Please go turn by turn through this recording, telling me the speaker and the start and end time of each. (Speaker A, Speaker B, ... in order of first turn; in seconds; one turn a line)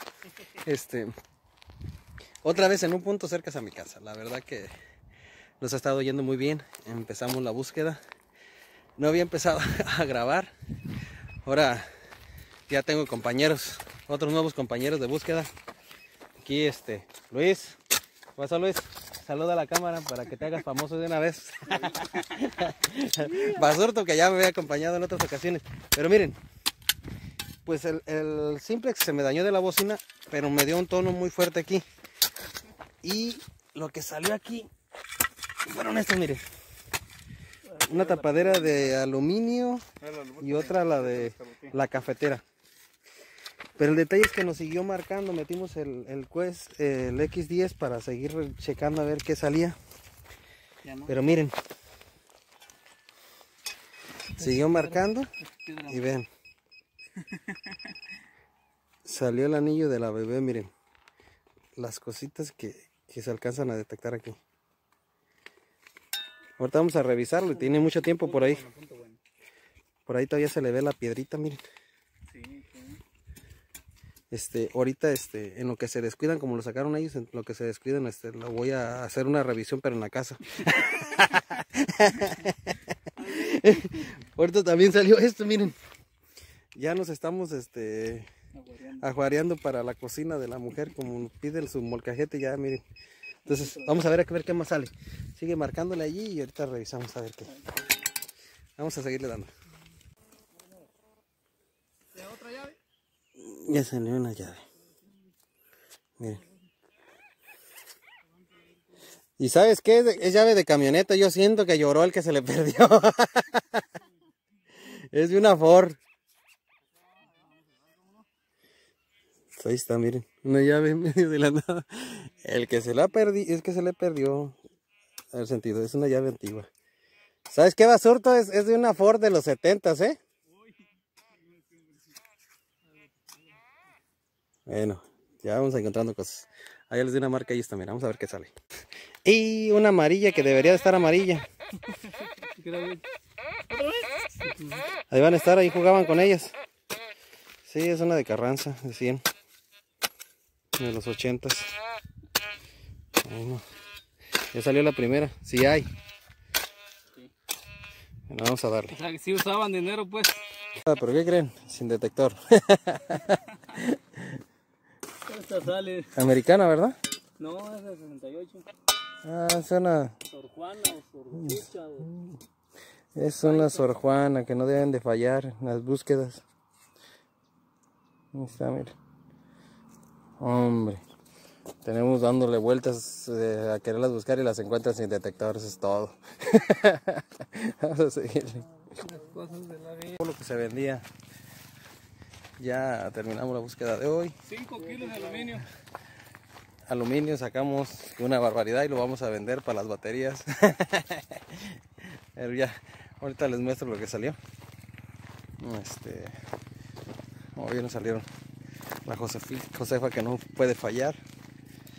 Speaker A: 0.5-1.1
Speaker A: 2.4-4.7
Speaker A: 5.6-8.0
Speaker A: 9.0-10.5
Speaker A: 11.4-11.9
Speaker A: 12.7-15.5
Speaker A: 16.4-17.8
Speaker A: 18.4-26.4
Speaker A: 27.6-31.8
Speaker A: 33.0-34.7
Speaker A: 35.6-36.4
Speaker B: 37.7-38.9
Speaker A: 37.8-39.8
Speaker B: 40.0-41.7
Speaker A: 40.4-42.4
Speaker A: 43.8-49.8
Speaker B: 50.8-51.1
Speaker A: 51.0-51.5
Speaker A: 54.3-56.3
Speaker B: 54.4-54.9
Speaker B: 55.6-56.0
Speaker B: 57.3-57.7
Speaker A: 59.0-60.7
Speaker A: 61.8-64.4
Speaker A: 66.6-68.6
Speaker B: 67.6-69.2
Speaker A: 70.0-71.6
Speaker B: 72.3-73.0
Speaker A: 74.3-85.8
Speaker A: 86.7-88.3
Speaker B: 88.6-89.0
Speaker A: 88.9-92.8
Speaker A: 93.4-97.5
Speaker B: 93.6-93.9
Speaker A: 98.8-99.5
Speaker B: 102.2-102.7
Speaker A: 103.3-104.6
Speaker A: 106.2-106.4
Speaker A: 109.4-113.8
Speaker A: 114.9-116.0
Speaker A: 119.6-124.6
Speaker A: 125.3-126.7
Speaker A: 127.5-130.2
Speaker A: 134.7-138.5
Speaker A: 139.2-141.4
Speaker B: 142.4-143.0
Speaker B: 144.4-144.8
Speaker A: 145.1-146.5
Speaker A: 147.7-149.2
Speaker A: 150.8-151.7
Speaker A: 153.2-153.6
Speaker A: 154.5-155.9
Speaker A: 158.3-159.0
Speaker B: 158.9-160.4
Speaker A: 160.8-164.4
Speaker B: 165.2-166.1
Speaker A: 166.1-166.9
Speaker B: 167.4-168.7
Speaker A: 169.2-170.2
Speaker B: 170.3-172.1
Speaker A: 171.4-172.4
Speaker A: 173.1-176.4
Speaker B: 173.4-173.9
Speaker A: 178.3-178.9
Speaker A: 180.4-181.0
Speaker A: 181.8-188.9
Speaker B: 188.9-190.2
Speaker A: 190.2-191.1
Speaker A: 192.6-194.3
Speaker B: 194.4-195.7
Speaker A: 196.9-201.8
Speaker A: 202.3-204.4
Speaker A: 205.6-206.3
Speaker A: 207.6-208.3
Speaker A: 209.0-211.2